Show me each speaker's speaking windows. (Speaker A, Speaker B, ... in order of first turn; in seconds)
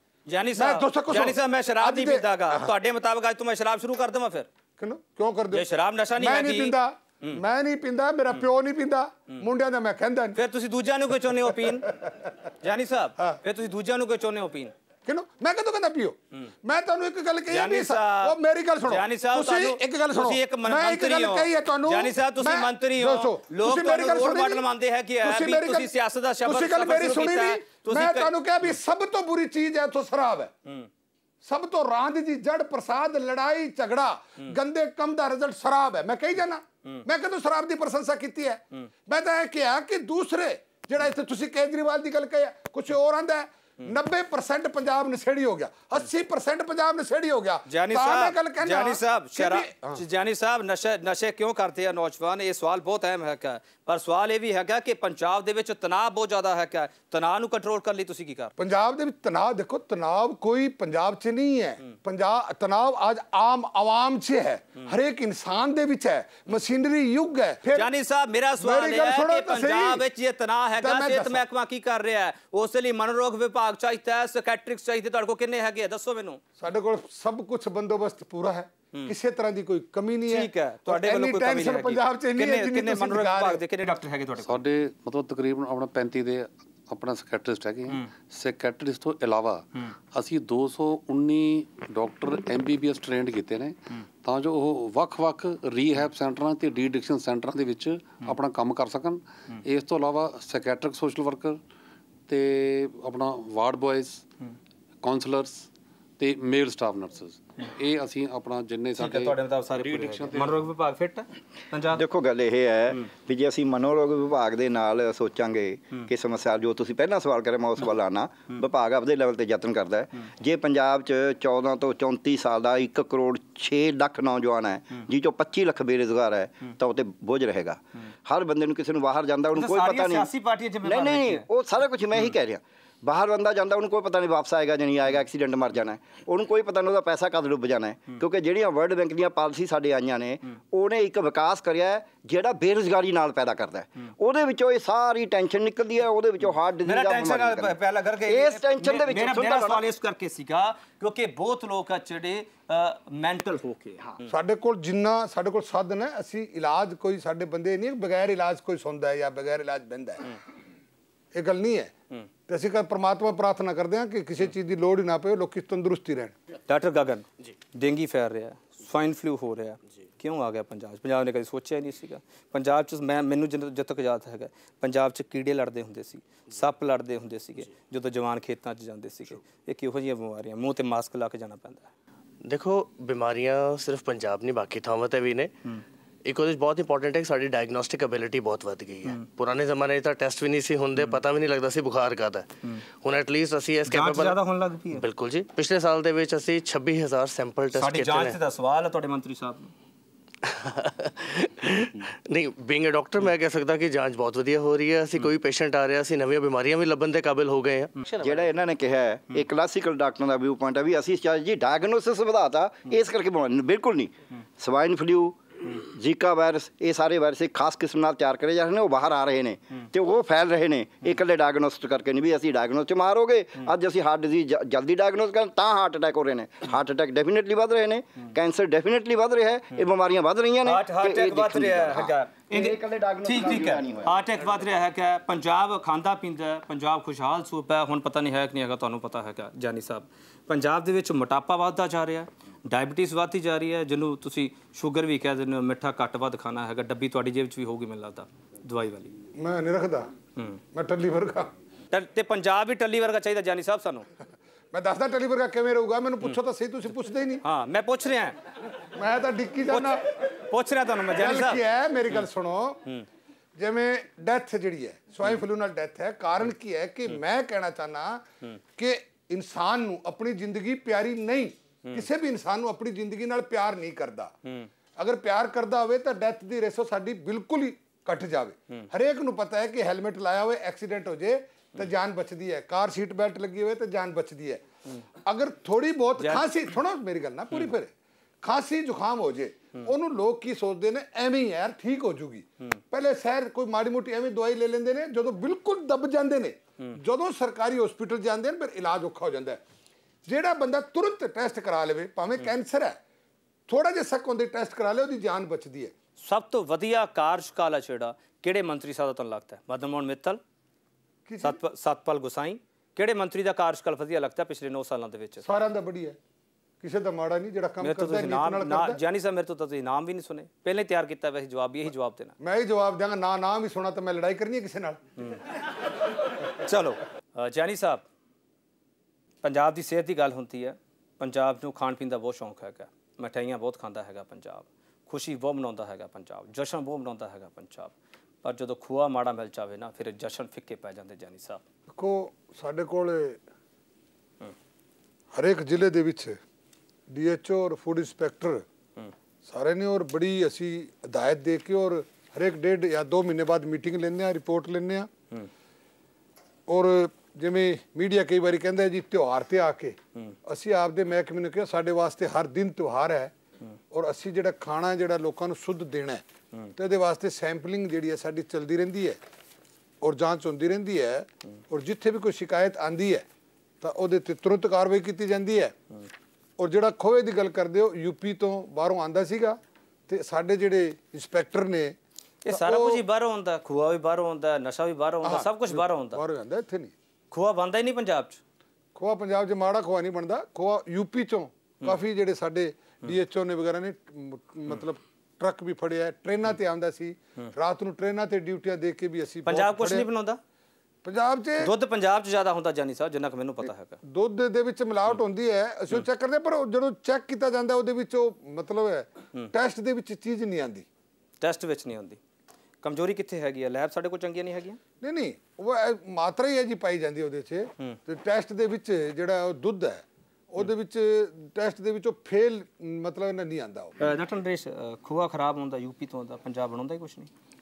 Speaker A: 0.3-4.5, 5.5-7.4, 10.3-11.9, 12.6-14.7, 17.5-28.3, 47.7-58.5, 67.7-76.4, 80.3-84.6, 109.0-112.0, 129.5-131.4, 146.8-154.2, 166.7-181.9, 193.8-195.0, 197.7-199.7, 230.6-249.1, 251.9-254.1, 257.4-258.4, 259.7-261.6, 286.2-286.5, 306.2-310.4, 311.4-315.4, 317.8-322.3, 326.6-328.0, 329.4-341.6, 382.4-386.2, 387.3-388.4, 399.4-400.4, 401.6-404.0, 411.4-412.2, 412.8-414.8, 424.0-427.3
Speaker B: 0.5-2.7, 4.8-10.4, 11.3-12.3, 15.0-24.6, 25.2-30.5, 31.4-50.0, 58.6-67.9, 68.6-70.1, 70.8-71.4, 76.6-83.6, 154.2-160.3, 161.3-161.9, 162.5-166.3, 249.3-250.1, 250.7-251.5, 254.7-257.4, 258.9-260.0, 261.1-262.8, 263.6-268.2, 268.8-274.3, 275.0-284.6, 285.2-299.6, 300.2-303.0, 303.7-305.9, 311.2-311.6, 315.4-316.2, 316.8-319.0, 322.4-325.0, 341.9-343.4, 345.3-346.4, 347.1-348.6, 349.4-355.1, 356.7-363.3, 363.9-366.2, 366.8-369.2, 370.0-373.2, 373.8-375.7, 376.6-381.9, 382.5-383.0, 385.2-386.9, 388.9-400.1, 401.0-401.7, 404.0-410.9, 415.0-423.9
Speaker C: 84.5-101.6, 102.3-104.2, 105.0-105.7, 106.2-110.6
Speaker D: 111.9-130.3, 130.8-149.8, 208.2-234.1
Speaker E: 182.4-185.5, 186.2-192.5, 193.0-194.4, 194.9-198.4, 200.4-208.3